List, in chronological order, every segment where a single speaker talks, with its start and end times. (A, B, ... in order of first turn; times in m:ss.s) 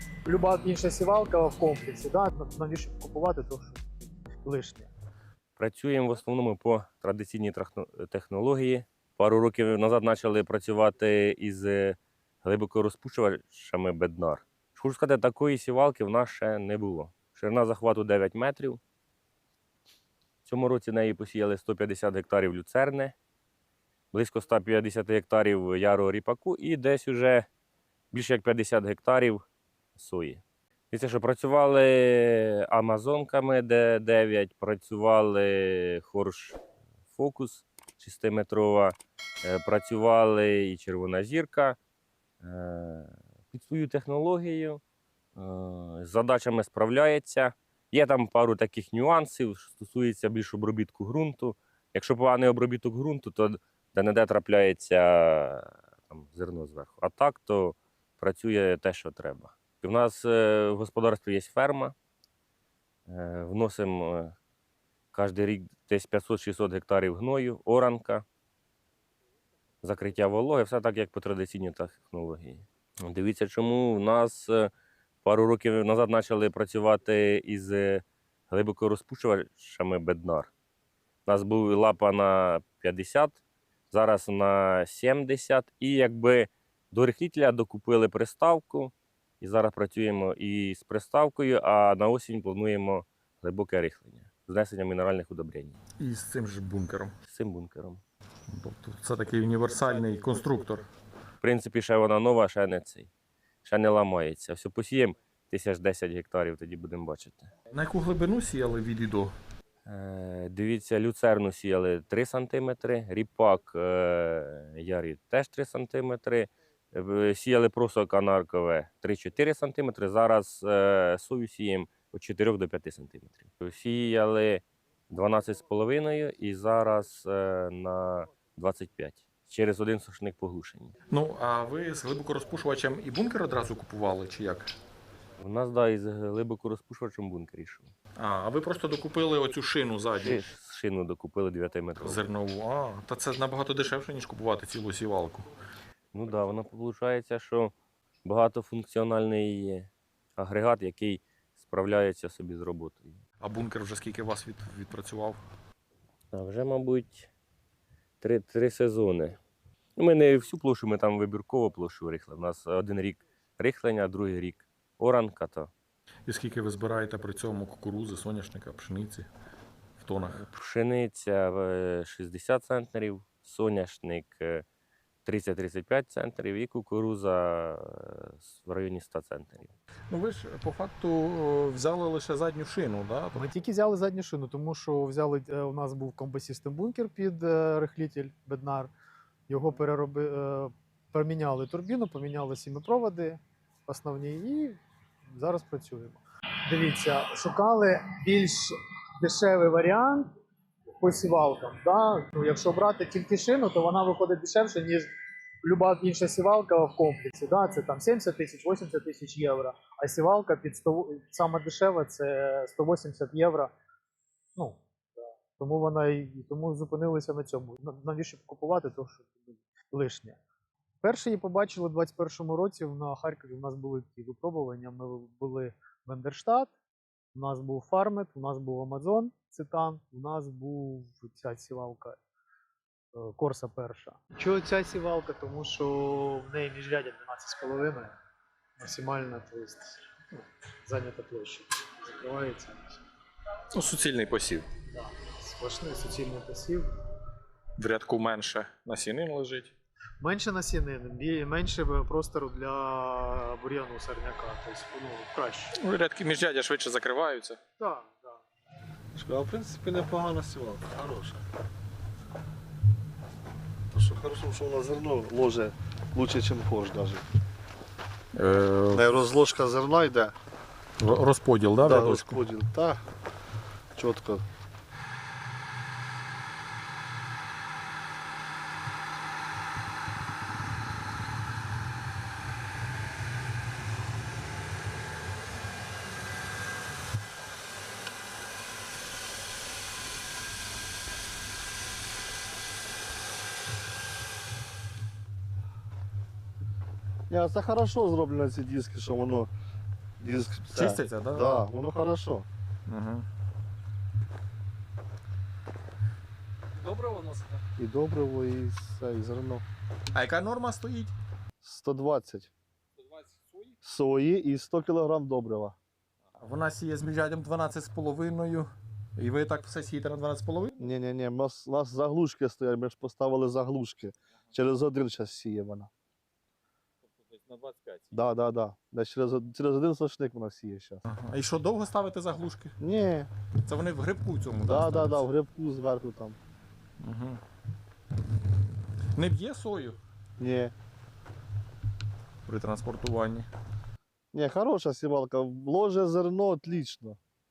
0:00.2-0:03.9 A
0:04.4-0:04.9 A
0:05.6-0:18.8 B
0:20.4-0:23.2 B
0:24.1-0:27.4 B
0:28.1-0:29.4 B
0:30.0-0:36.6 B
0:37.1-0:41.8 B
0:42.4-0:44.8 B
0:45.4-1:02.0 B
1:03.1-1:04.3 B
1:05.1-1:08.2 B
1:09.8-1:14.7 B
1:15.2-1:20.5 B
1:21.3-1:35.8 B
1:36.0-1:37.1 C
1:37.3-1:38.0 B
1:38.5-1:40.9 C
1:41.4-1:43.1 B
1:43.6-1:47.5 B
1:47.7-1:49.3 C
1:49.9-2:10.9 B
2:11.1-2:14.7 C
2:15.4-2:17.9 B
2:18.2-2:20.4 C
2:20.2-2:22.2 B
2:22.0-2:25.5 C
2:26.1-2:27.7 B
2:28.2-2:33.2 B
2:33.4-2:35.4 C
2:36.3-2:37.3 B
2:38.2-2:39.4 B
2:40.0-2:45.7 B
2:46.3-2:49.3 C
2:50.0-2:50.4 C
2:50.4-2:54.6 B
2:55.2-2:59.7 B
3:00.1-3:03.5 C
3:03.4-3:08.9 A
3:09.5-3:14.8 A
3:15.3-3:20.3 A
3:21.0-3:25.1 A
3:25.6-3:33.7 A
3:34.6-3:40.4 A
3:41.0-3:46.7 A
3:47.3-3:52.2 A
3:53.1-3:58.2 A
3:58.8-4:03.0 A
4:03.7-4:04.7 C
4:04.9-4:06.9 A
4:07.8-4:09.7 C
4:10.2-4:15.8 A
4:15.8-4:17.6 C
4:17.8-4:18.4 A
4:19.2-4:21.4 D
4:23.9-4:27.3 D
4:28.3-4:29.1 C
4:28.9-4:30.4 D
4:31.0-4:32.4 C
4:31.8-4:33.0 D
4:34.0-4:34.4 D
4:57.3-4:59.5 D
5:00.2-5:02.5 D
5:00.7-5:01.6 C
5:02.9-5:03.3 C
5:06.8-5:07.6 E
5:07.8-5:09.7 D
5:10.1-5:11.1 C
5:11.6-5:12.5 D
5:13.0-5:13.8 E
5:13.8-5:15.8 D
5:16.4-5:20.9 C
5:20.8-5:25.9 D
5:27.3-5:28.0 E
5:27.6-5:28.0 C
5:28.1-5:31.0 D
5:31.1-5:32.8 C
5:32.8-5:33.3 D
5:33.6-5:35.3 C
5:34.6-5:36.4 D
5:37.0-5:37.4 C
5:39.2-5:40.0 C
5:40.4-5:40.7 D
5:42.5-5:43.5 C
5:44.3-5:47.2 D